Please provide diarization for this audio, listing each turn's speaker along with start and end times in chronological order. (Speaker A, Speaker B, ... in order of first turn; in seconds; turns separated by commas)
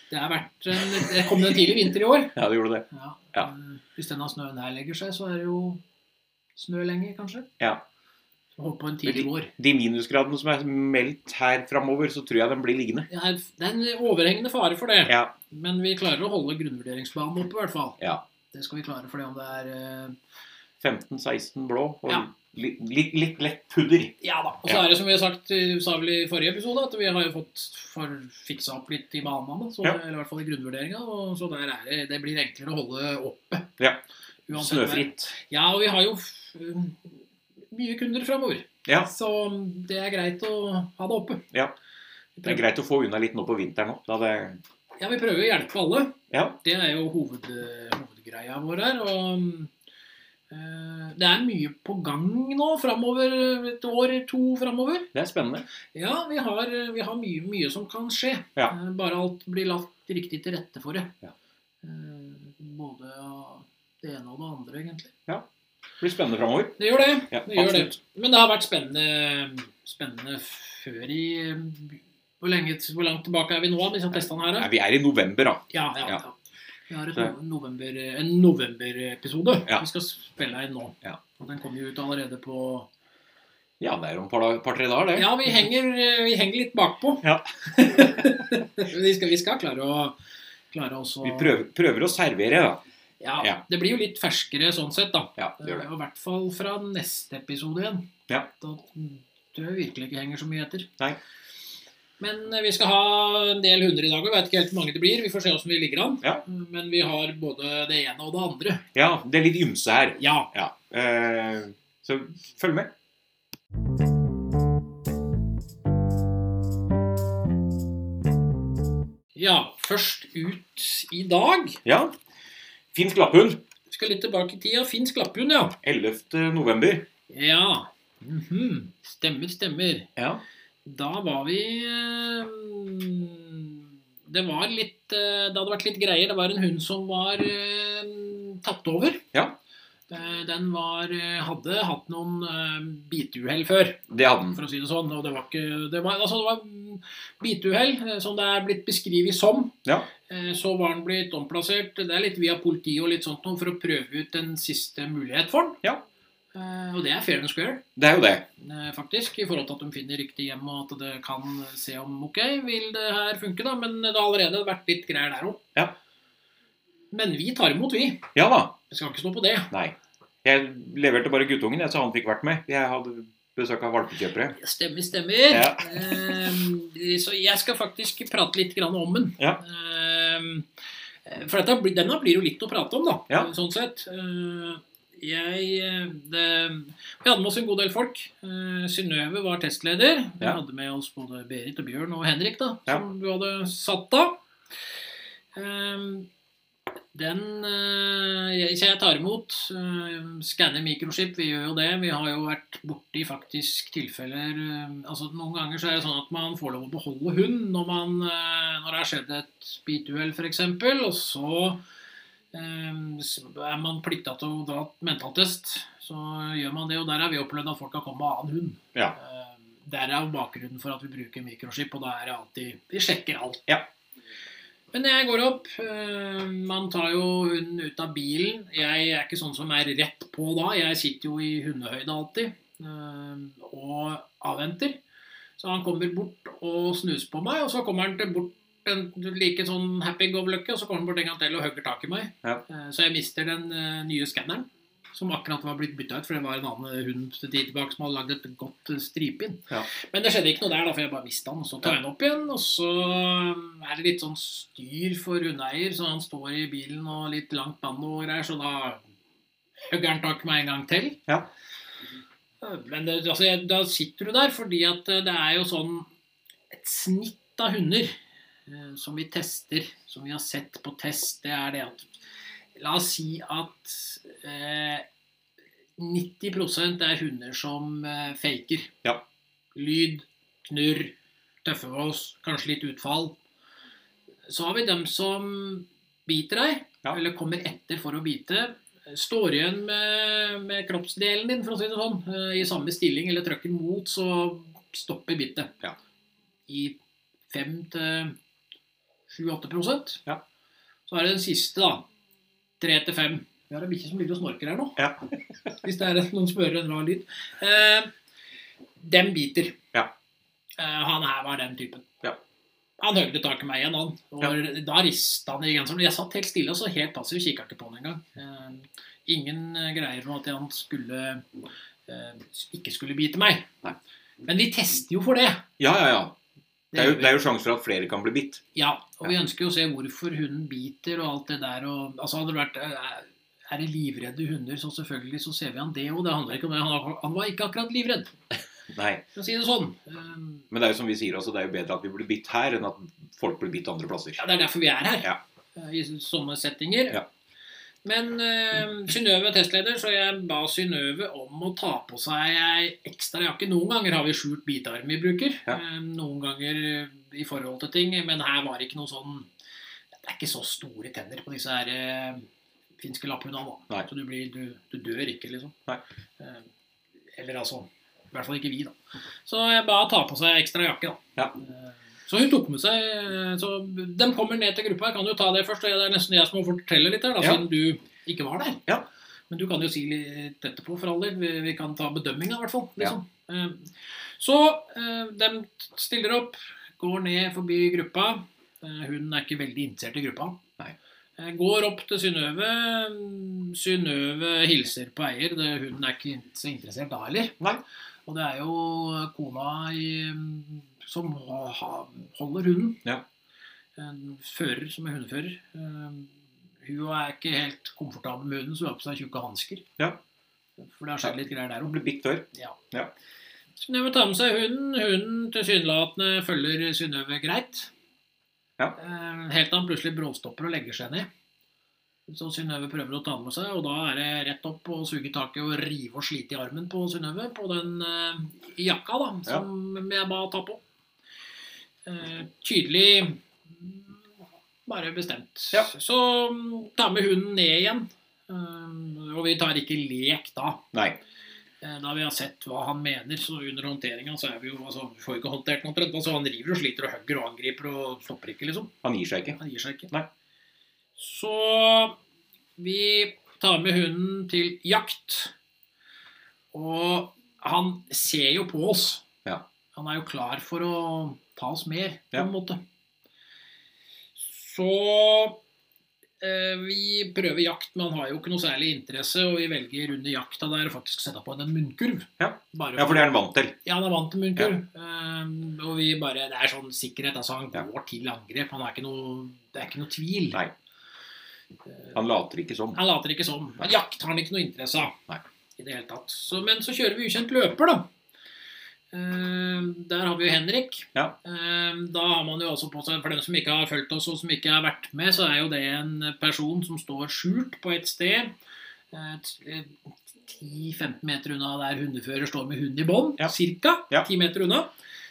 Speaker A: 0.1-2.3, Speaker B: 2.3-3.5, Speaker A: 2.9-5.8, Speaker A: 6.5-7.5, Speaker A: 8.6-9.5, Speaker B: 9.1-13.1, Speaker A: 13.1-18.0, Speaker B: 15.1-15.3, Speaker A: 18.5-20.1, Speaker B: 20.8-24.1, Speaker A: 24.2-33.7, Speaker A: 34.5-37.1, Speaker B: 34.5-35.3, Speaker A: 37.7-41.5, Speaker B: 42.4-44.6, Speaker A: 45.0-49.7, Speaker B: 46.3-46.6, Speaker A: 50.5-55.1, Speaker B: 55.1-55.6, Speaker A: 55.9-61.1, Speaker A: 61.8-65.1, Speaker B: 66.0-66.8, Speaker A: 66.8-74.7, Speaker B: 67.3-68.0, Speaker B: 74.6-76.2, Speaker A: 75.7-76.3, Speaker A: 76.9-82.9, Speaker B: 83.8-85.7, Speaker A: 85.1-90.2, Speaker B: 87.2-88.3, Speaker A: 90.7-91.6, Speaker B: 91.2-92.8, Speaker A: 93.2-100.9, Speaker B: 95.4-95.8, Speaker A: 102.2-108.8, Speaker B: 108.9-112.9, Speaker A: 110.2-110.5, Speaker A: 119.3-121.8, Speaker B: 121.8-122.1, Speaker B: 122.9-123.6, Speaker A: 123.9-125.8, Speaker B: 125.8-127.1, Speaker A: 127.3-130.1, Speaker B: 130.2-130.4, Speaker A: 130.8-139.2, Speaker A: 140.1-155.8, Speaker B: 144.1-144.6, Speaker A: 156.5-157.8, Speaker B: 158.0-158.5, Speaker A: 158.6-165.6, Speaker A: 167.1-168.3, Speaker B: 168.3-168.7, Speaker A: 168.9-169.7, Speaker B: 169.7-174.6, Speaker A: 174.6-180.7, Speaker B: 175.5-176.3, Speaker A: 181.2-194.4, Speaker A: 195.5-196.3, Speaker A: 197.1-211.8, Speaker A: 212.5-223.7, Speaker A: 224.9-235.0, Speaker A: 235.6-259.0, Speaker A: 259.9-261.2, Speaker A: 262.6-266.1, Speaker A: 266.7-268.1, Speaker A: 268.7-272.1, Speaker A: 272.8-275.1, Speaker A: 276.0-279.0, Speaker A: 279.7-281.1, Speaker A: 281.6-283.4, Speaker A: 284.5-295.7, Speaker A: 296.7-296.9, Speaker A: 297.5-298.4, Speaker A: 299.3-300.2, Speaker A: 301.1-302.1, Speaker A: 302.8-305.0, Speaker A: 305.7-308.1, Speaker A: 309.0-309.8, Speaker A: 310.8-312.1, Speaker A: 313.0-321.4, Speaker A: 322.1-323.7, Speaker A: 324.4-325.6, Speaker B: 325.8-326.3, Speaker A: 326.9-327.4, Speaker B: 326.9-328.6, Speaker A: 328.7-338.3, Speaker B: 338.9-339.2, Speaker A: 339.3-340.6, Speaker B: 340.7-344.4, Speaker A: 344.4-347.2, Speaker A: 348.0-359.5, Speaker A: 360.2-362.4, Speaker A: 363.0-365.8, Speaker A: 366.4-366.7, Speaker A: 367.4-368.9, Speaker A: 369.4-378.8, Speaker A: 379.5-390.6, Speaker A: 391.4-397.6, Speaker A: 398.3-403.0, Speaker A: 404.0-409.9, Speaker A: 410.8-411.9, Speaker B: 411.2-413.1, Speaker A: 413.8-417.9, Speaker A: 419.0-421.3, Speaker A: 422.3-430.8, Speaker A: 432.1-434.2, Speaker A: 434.9-440.8, Speaker B: 440.9-441.2, Speaker A: 441.8-448.9, Speaker B: 449.0-449.6, Speaker A: 449.5-450.1, Speaker A: 451.2-452.2, Speaker A: 452.8-455.5, Speaker A: 456.7-459.2, Speaker A: 459.9-462.8, Speaker A: 464.4-465.6, Speaker A: 466.4-473.3, Speaker B: 472.4-473.8, Speaker A: 473.8-480.6, Speaker B: 482.1-483.0, Speaker A: 482.9-485.2, Speaker A: 485.8-488.1, Speaker A: 489.1-498.5, Speaker A: 499.1-504.9